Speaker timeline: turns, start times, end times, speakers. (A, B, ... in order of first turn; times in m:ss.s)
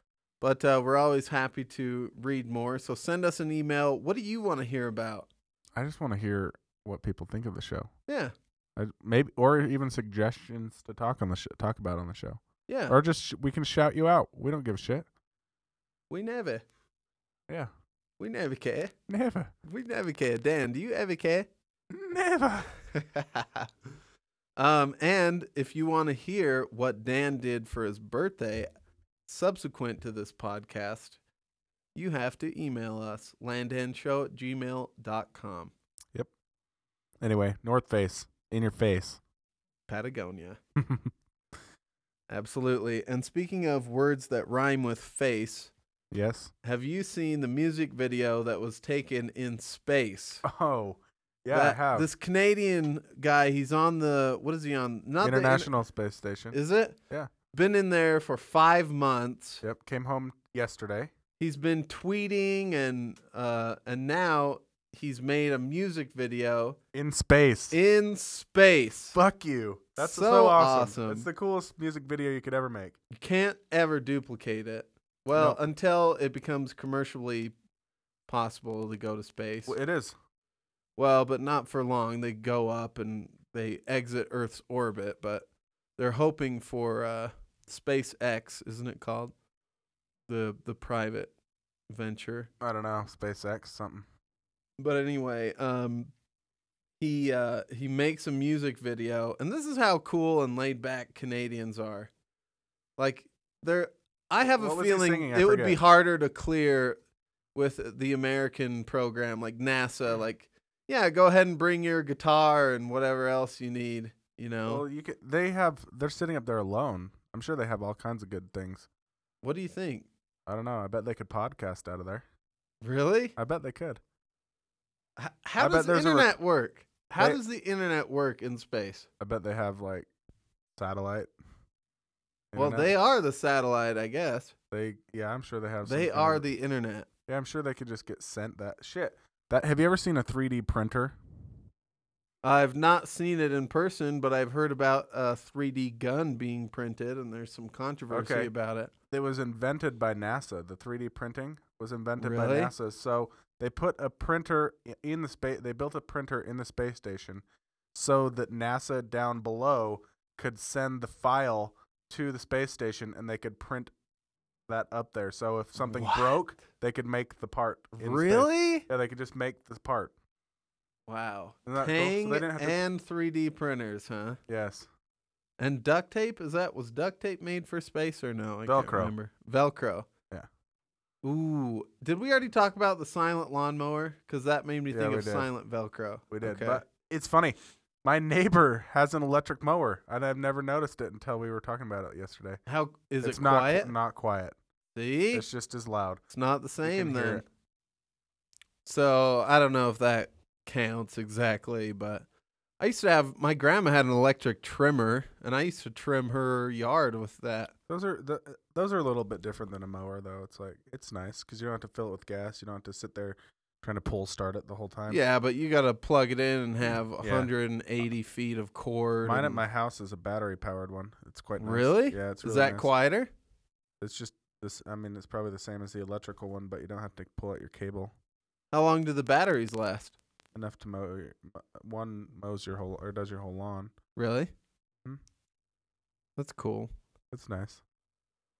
0:00.4-0:05.3 A
0:05.7-0:07.9 B
0:08.1-0:08.3 A
0:08.8-0:15.0 B
0:12.7-0:13.0 A
0:16.1-0:16.6 A
0:18.2-0:18.9 A
0:19.1-0:19.5 B
0:19.6-0:21.5 A
0:21.9-0:22.7 B
0:22.9-0:23.7 A
0:24.6-0:28.7 A
0:29.3-0:31.2 A
0:31.9-0:35.7 A
0:37.2-0:39.2 B
0:39.9-0:40.6 A
0:40.8-0:41.1 B
0:42.3-0:45.7 A
0:46.1-0:46.5 B
0:46.6-0:50.4 A
0:50.4-0:52.1 B
0:51.5-0:55.7 A
0:55.2-0:56.6 B
0:56.5-0:57.0 A
0:57.5-0:59.6 A
0:59.6-1:01.1 B
1:01.4-1:06.8 A
1:06.9-1:07.8 B
1:07.7-1:09.2 A
1:09.1-1:13.0 B
1:10.0-1:11.3 A
1:13.1-1:17.5 A
1:15.3-1:15.6 B
1:18.3-1:19.8 A
1:19.7-1:20.2 B
1:21.0-1:25.4 A
1:26.0-1:29.3 A
1:30.3-1:31.3 A
1:31.9-1:32.5 A
1:32.6-1:34.1 B
1:34.8-1:36.1 A
1:37.0-1:42.1 A
1:43.0-1:47.0 A
1:44.6-1:45.8 B
1:47.5-1:54.8 A
1:54.6-1:58.9 B
1:59.4-2:00.1 A
2:00.5-2:02.2 B
2:02.8-2:03.4 A
2:03.4-2:04.0 B
2:05.2-2:09.0 A
2:05.6-2:06.4 B
2:09.2-2:10.1 B
2:10.8-2:11.3 B
2:12.5-2:12.9 B
2:12.6-2:14.5 A
2:14.7-2:16.4 B
2:15.8-2:17.1 A
2:17.3-2:21.2 B
2:22.4-2:28.9 A
2:28.1-2:28.5 B
2:29.1-2:43.9 B
2:32.2-2:32.7 A
2:44.7-2:50.1 B
2:45.8-2:46.4 A
2:48.0-2:48.9 A
2:51.1-2:54.4 A
2:51.6-2:52.8 B
2:54.5-2:54.9 B
2:55.6-3:00.1 A
2:58.6-2:59.1 B
3:01.2-3:06.8 A
3:04.9-3:05.5 B
3:06.3-3:12.6 B
3:12.7-3:13.9 A
3:13.2-3:14.6 B
3:15.0-3:15.4 A
3:15.3-3:16.2 B
3:16.3-3:17.4 A
3:16.8-3:17.4 B
3:18.8-3:22.2 A
3:22.8-3:27.7 A
3:27.9-3:35.2 B
3:35.1-3:39.6 A
3:37.2-3:37.5 B
3:39.2-3:42.9 B
3:41.6-3:43.3 A
3:44.0-3:48.1 B
3:48.7-3:50.2 A
3:50.5-3:53.9 B
3:54.2-3:54.5 A
3:56.4-3:56.9 A
3:57.3-3:57.8 B